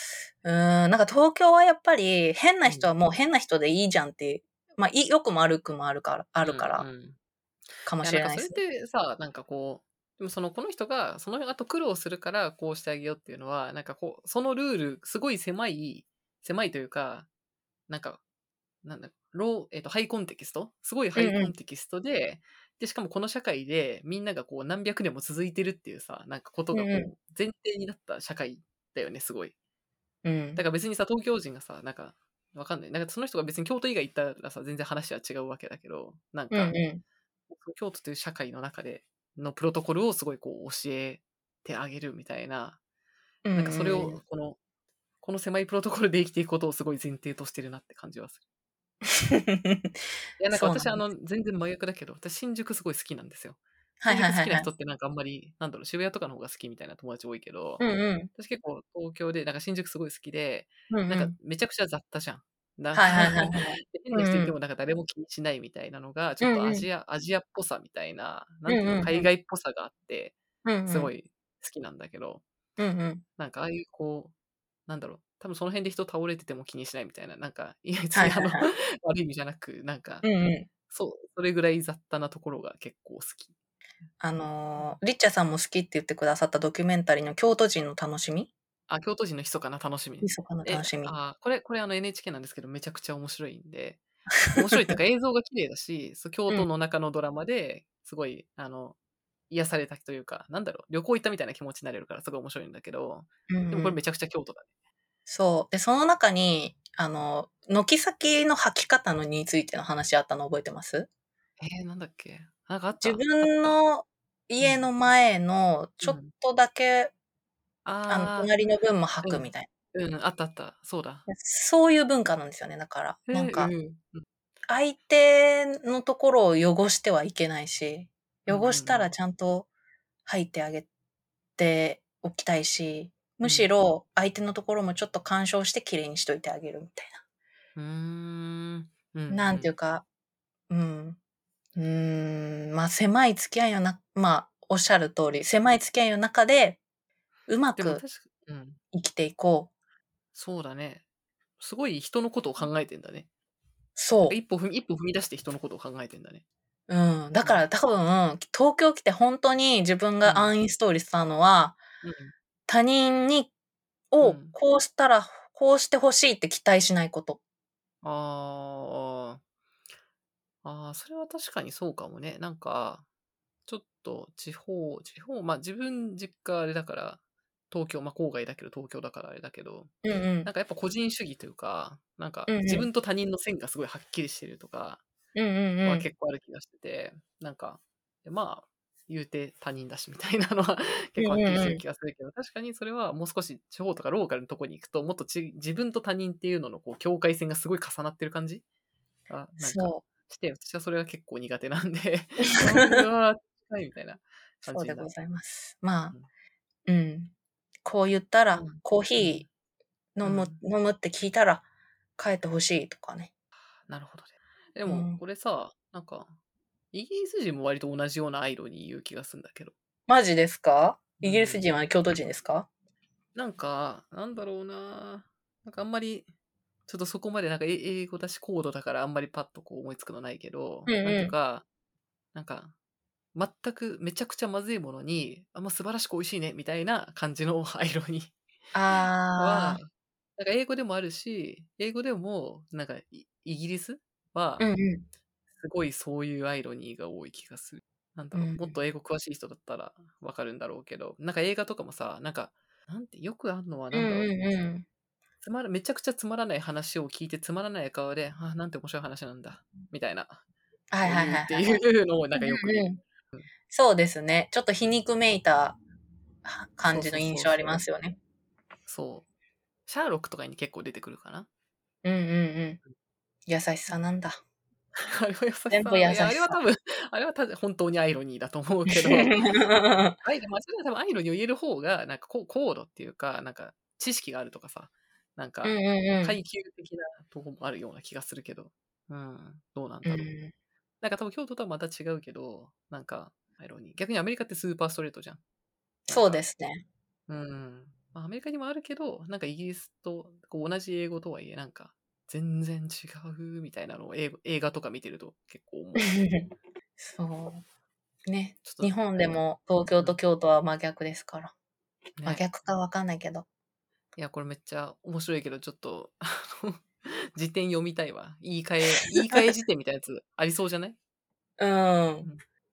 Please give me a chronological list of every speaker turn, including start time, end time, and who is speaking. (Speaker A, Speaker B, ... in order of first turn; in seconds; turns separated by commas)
Speaker A: 0.4-6.9, Speaker B: 6.4-7.2, Speaker A: 7.8-8.6, Speaker B: 8.0-17.3, Speaker B: 17.9-18.2, Speaker B: 18.8-29.5, Speaker A: 21.2-21.5, Speaker A: 26.7-27.1, Speaker A: 30.2-30.6, Speaker B: 30.6-36.8, Speaker A: 36.5-37.0, Speaker B: 37.5-42.8, Speaker A: 43.5-44.2, Speaker B: 43.5-44.6, Speaker B: 45.2-48.4, Speaker A: 49.1-50.0, Speaker B: 50.4-70.4, Speaker A: 50.5-51.0, Speaker A: 54.0-54.7, Speaker A: 57.8-58.3, Speaker A: 60.9-61.3, Speaker A: 63.0-64.5, Speaker A: 66.4-66.9, Speaker A: 68.7-69.3, Speaker A: 70.7-71.1, Speaker B: 70.9-72.4, Speaker A: 72.8-73.2, Speaker B: 73.4-74.3, Speaker B: 74.9-80.3, Speaker A: 78.1-78.7, Speaker A: 80.2-80.7, Speaker B: 80.9-83.5, Speaker A: 84.2-88.5, Speaker B: 88.9-94.0, Speaker A: 90.2-91.1, Speaker A: 94.5-94.9, Speaker B: 94.5-99.0, Speaker B: 99.5-104.7, Speaker A: 103.5-104.0, Speaker A: 105.3-111.1, Speaker B: 111.6-113.8, Speaker A: 113.0-117.1, Speaker B: 114.6-114.9, Speaker B: 116.0-116.3, Speaker B: 117.8-118.5, Speaker A: 118.1-119.7, Speaker B: 119.2-121.3, Speaker A: 121.3-123.7, Speaker B: 123.3-124.2, Speaker A: 124.7-129.7, Speaker B: 128.5-129.1, Speaker A: 130.3-130.9, Speaker A: 131.6-137.2, Speaker B: 137.8-139.7, Speaker A: 139.3-140.0, Speaker A: 140.7-141.2, Speaker A: 141.8-146.8, Speaker A: 147.5-148.0, Speaker B: 147.8-148.8, Speaker A: 148.9-149.7, Speaker B: 150.3-151.0, Speaker B: 151.6-153.3, Speaker A: 154.0-154.4, Speaker B: 154.3-156.4, Speaker A: 156.9-161.8, Speaker B: 160.2-160.6, Speaker B: 162.0-162.3, Speaker A: 162.7-163.5, Speaker A: 164.1-167.4, Speaker B: 164.2-164.5, Speaker B: 168.0-169.4, Speaker B: 170.6-173.1, Speaker B: 173.7-177.2, Speaker B: 177.7-179.9, Speaker A: 180.0-180.5, Speaker B: 180.4-185.0, Speaker A: 182.5-182.9, Speaker A: 185.3-186.1, Speaker B: 185.8-198.6, Speaker A: 191.2-191.8, Speaker B: 199.3-205.1, Speaker A: 199.6-200.0, Speaker A: 202.6-203.0, Speaker A: 204.7-206.2, Speaker A: 206.9-207.3, Speaker A: 207.8-209.5, Speaker B: 208.6-209.5, Speaker A: 210.2-211.7, Speaker B: 210.2-210.6, Speaker A: 212.2-213.3, Speaker B: 213.9-216.3, Speaker A: 214.9-215.2, Speaker B: 216.9-219.7, Speaker A: 220.1-222.7, Speaker B: 221.2-221.6, Speaker B: 223.3-226.3, Speaker B: 226.9-231.7, Speaker A: 230.9-231.3, Speaker B: 232.3-232.7, Speaker B: 233.3-238.3, Speaker A: 238.7-239.8, Speaker B: 239.4-244.7, Speaker A: 244.6-245.1, Speaker B: 245.6-254.3, Speaker A: 248.3-248.8, Speaker A: 253.9-254.8, Speaker B: 255.4-260.4, Speaker A: 260.9-261.8, Speaker B: 261.0-263.4, Speaker A: 262.4-263.0, Speaker A: 263.7-265.8, Speaker A: 266.4-268.2, Speaker B: 266.9-267.8, Speaker B: 268.9-269.2, Speaker B: 269.9-271.5, Speaker A: 272.0-272.8, Speaker A: 273.5-274.4, Speaker B: 275.0-279.4, Speaker A: 275.7-276.6, Speaker A: 278.9-280.2, Speaker B: 280.2-290.3, Speaker A: 285.6-286.4, Speaker A: 290.1-290.5, Speaker B: 291.0-295.4, Speaker A: 296.1-296.8, Speaker B: 296.1-296.4, Speaker B: 297.3-306.2, Speaker A: 306.0-307.6, Speaker A: 308.3-311.5, Speaker B: 308.6-309.4, Speaker B: 312.2-312.5, Speaker A: 312.2-313.5, Speaker B: 314.2-321.0, Speaker A: 321.6-322.3